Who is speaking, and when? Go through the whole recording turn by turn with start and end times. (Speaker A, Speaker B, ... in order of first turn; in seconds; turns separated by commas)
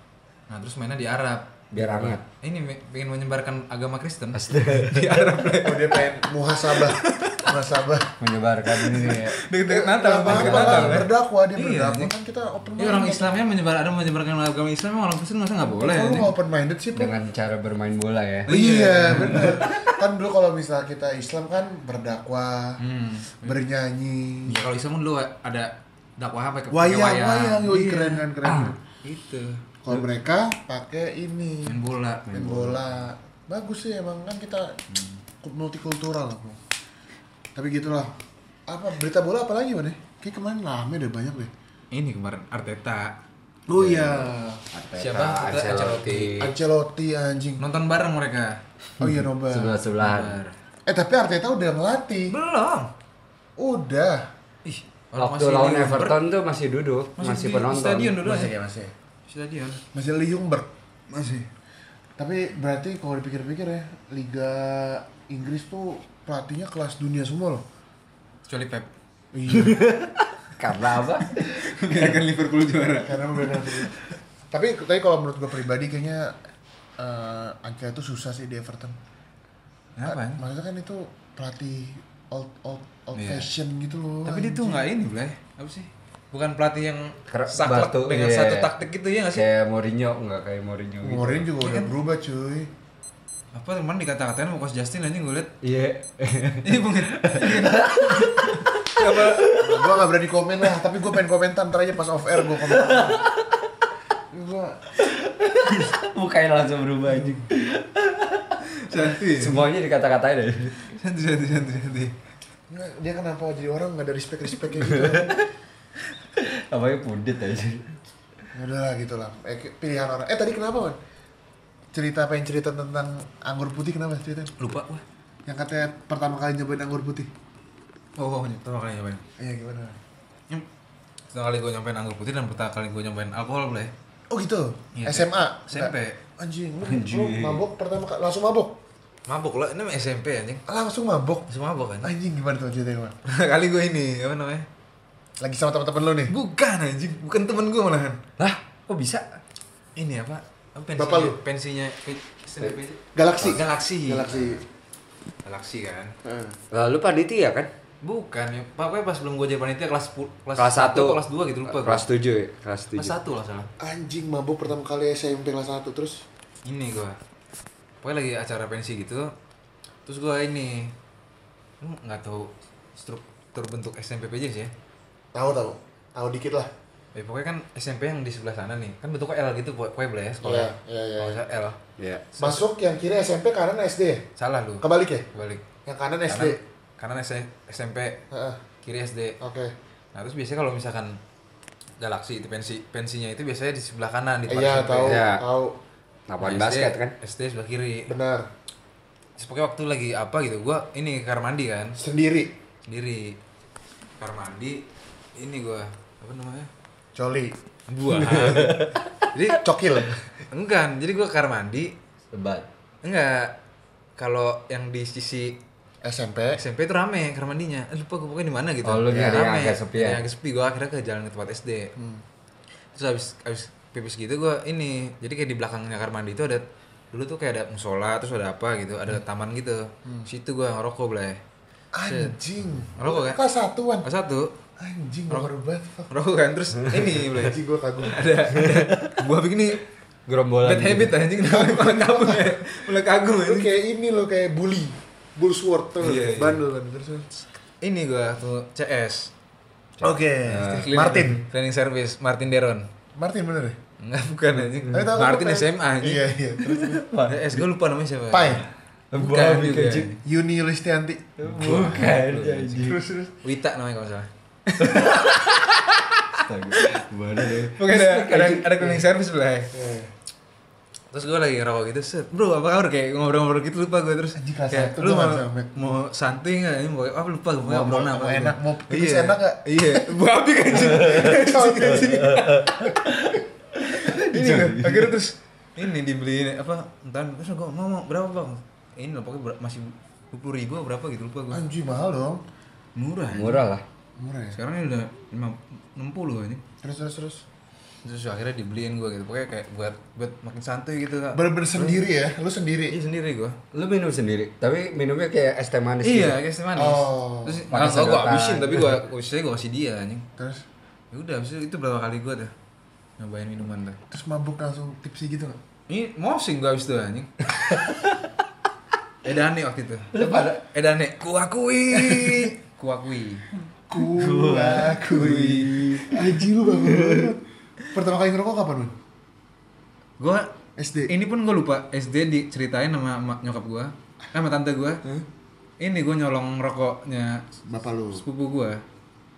Speaker A: 0.5-7.6, Speaker B: 1.7-2.2, Speaker B: 4.3-5.4, Speaker C: 5.6-8.1, Speaker B: 8.2-9.4, Speaker A: 8.7-12.1, Speaker C: 9.7-13.3, Speaker B: 10.2-11.1, Speaker A: 12.8-16.3, Speaker C: 15.7-17.1, Speaker B: 16.9-18.5, Speaker A: 18.5-19.8, Speaker C: 18.5-22.8, Speaker B: 19.2-19.7, Speaker A: 22.8-23.6, Speaker C: 23.4-24.6, Speaker A: 24.4-28.3, Speaker C: 26.7-28.8, Speaker B: 28.4-28.8, Speaker A: 29.0-29.6, Speaker C: 29.8-34.8, Speaker A: 31.6-32.5, Speaker B: 32.3-32.8, Speaker A: 34.9-35.2, Speaker C: 35.4-36.6, Speaker C: 37.5-38.2, Speaker C: 38.7-41.5, Speaker A: 41.9-43.2, Speaker C: 43.7-44.6, Speaker B: 43.8-46.5, Speaker A: 45.0-46.4, Speaker C: 46.4-47.6, Speaker A: 47.6-48.6, Speaker C: 49.0-49.8, Speaker B: 49.0-50.4, Speaker A: 50.0-50.5, Speaker C: 50.9-52.4, Speaker A: 52.3-52.9, Speaker C: 53.6-54.3, Speaker A: 54.6-56.2, Speaker B: 55.2-58.2, Speaker A: 57.2-58.5, Speaker C: 58.2-58.9, Speaker A: 59.3-59.8, Speaker C: 59.9-60.7, Speaker A: 61.1-61.5, Speaker C: 62.2-67.6, Speaker A: 68.5-68.9, Speaker C: 69.3-69.9, Speaker B: 69.5-71.6, Speaker A: 71.4-74.0, Speaker C: 73.0-73.9, Speaker C: 74.5-76.4, Speaker C: 77.0-79.0, Speaker A: 80.0-80.4, Speaker C: 80.0-84.9, Speaker A: 83.1-83.5, Speaker A: 84.2-89.5, Speaker B: 87.3-88.7, Speaker B: 89.3-91.5, Speaker C: 91.0-92.7, Speaker A: 91.6-91.9, Speaker A: 93.5-95.5, Speaker B: 95.6-99.9, Speaker A: 96.6-99.7, Speaker C: 99.6-103.2, Speaker B: 102.5-103.7, Speaker C: 104.3-104.9, Speaker B: 105.0-110.9, Speaker A: 108.8-109.7, Speaker A: 111.0-112.1, Speaker C: 112.7-115.4, Speaker B: 114.8-115.4, Speaker B: 116.3-117.9, Speaker C: 118.5-121.0, Speaker C: 121.9-124.5, Speaker A: 124.6-125.0, Speaker C: 125.5-127.3, Speaker A: 128.2-129.2, Speaker C: 129.4-130.0, Speaker A: 131.3-133.9, Speaker C: 134.3-138.8, Speaker A: 134.9-136.2, Speaker B: 136.8-137.6, Speaker A: 139.3-140.6, Speaker C: 140.7-141.5, Speaker A: 141.5-142.1, Speaker C: 142.0-143.2, Speaker A: 143.2-144.7, Speaker C: 145.4-146.3, Speaker A: 146.3-148.2, Speaker B: 148.4-149.4, Speaker A: 150.0-154.6, Speaker C: 150.9-151.4, Speaker C: 153.1-154.6, Speaker A: 155.4-156.1, Speaker C: 156.2-156.6, Speaker B: 156.7-157.7, Speaker A: 158.0-162.1, Speaker B: 160.6-163.2, Speaker A: 162.9-163.7, Speaker C: 163.8-166.2, Speaker A: 166.6-167.2, Speaker A: 168.0-169.3, Speaker A: 170.1-170.9, Speaker A: 171.8-174.7, Speaker C: 175.3-176.7, Speaker A: 177.1-181.8, Speaker C: 180.4-181.4, Speaker B: 182.0-182.3, Speaker A: 182.3-182.6, Speaker C: 182.4-184.3, Speaker A: 184.4-185.7, Speaker C: 184.8-185.3, Speaker C: 185.8-186.6, Speaker A: 186.3-188.2, Speaker C: 188.3-188.6, Speaker A: 188.8-189.4, Speaker C: 189.4-189.7, Speaker A: 190.1-191.2, Speaker A: 192.0-195.2, Speaker C: 194.5-195.8, Speaker B: 195.0-195.4, Speaker B: 196.3-197.1, Speaker A: 196.4-198.1, Speaker C: 198.1-198.5, Speaker A: 199.4-202.0, Speaker C: 202.0-202.5, Speaker A: 202.9-203.4, Speaker A: 204.2-204.8, Speaker A: 205.4-206.7, Speaker C: 207.1-207.6, Speaker A: 207.9-209.6, Speaker B: 208.2-209.2, Speaker C: 209.6-210.2, Speaker A: 210.4-211.9, Speaker B: 212.3-212.7, Speaker A: 213.0-213.5, Speaker A: 214.2-215.6, Speaker C: 216.0-216.6, Speaker A: 216.5-221.9, Speaker B: 218.8-220.2, Speaker C: 219.1-219.4, Speaker C: 222.0-222.2, Speaker A: 222.9-231.4, Speaker C: 231.9-234.1, Speaker A: 232.0-232.3, Speaker A: 233.0-233.4, Speaker A: 234.0-234.5, Speaker C: 234.8-236.1, Speaker A: 236.1-239.8, Speaker C: 237.0-238.3, Speaker B: 238.5-239.2, Speaker B: 240.3-241.2, Speaker A: 240.6-243.7, Speaker C: 241.4-242.6, Speaker C: 243.4-247.3, Speaker A: 246.0-246.6, Speaker A: 247.8-249.3, Speaker C: 250.0-251.4, Speaker B: 250.0-250.9, Speaker A: 250.8-252.9, Speaker C: 253.2-253.8, Speaker A: 254.0-256.2, Speaker C: 254.9-257.0, Speaker A: 256.8-260.2, Speaker B: 256.8-257.6, Speaker C: 258.3-258.6, Speaker B: 259.1-260.1, Speaker C: 260.2-261.3, Speaker B: 261.4-263.0, Speaker A: 261.5-267.0, Speaker C: 262.8-263.3, Speaker B: 264.8-265.6, Speaker B: 266.3-269.0, Speaker A: 267.6-269.7, Speaker C: 269.7-270.1, Speaker A: 271.1-283.0, Speaker C: 274.4-276.0, Speaker C: 277.6-280.2, Speaker C: 280.7-282.9, Speaker B: 282.1-285.1, Speaker A: 283.8-291.6, Speaker C: 284.3-285.1, Speaker C: 291.5-292.4, Speaker A: 292.9-293.6, Speaker B: 293.3-293.8, Speaker C: 294.2-294.6, Speaker A: 294.5-296.6, Speaker C: 296.8-297.4, Speaker A: 298.0-302.0, Speaker C: 301.3-303.0, Speaker A: 302.9-303.6, Speaker B: 303.7-306.4, Speaker A: 306.0-310.2, Speaker C: 306.7-307.7, Speaker B: 307.7-309.0, Speaker C: 310.4-310.6, Speaker A: 311.1-312.5, Speaker A: 313.2-314.0, Speaker C: 314.1-315.6, Speaker A: 315.9-318.0, Speaker B: 317.6-318.1, Speaker A: 319.2-323.5, Speaker B: 320.1-320.6, Speaker C: 321.9-322.5, Speaker C: 323.9-327.4, Speaker B: 324.1-327.3, Speaker A: 324.9-326.0, Speaker C: 327.9-328.9, Speaker A: 330.2-330.5, Speaker C: 330.8-331.1, Speaker A: 331.1-335.0, Speaker A: 335.8-337.4, Speaker C: 337.6-338.2, Speaker A: 338.1-338.8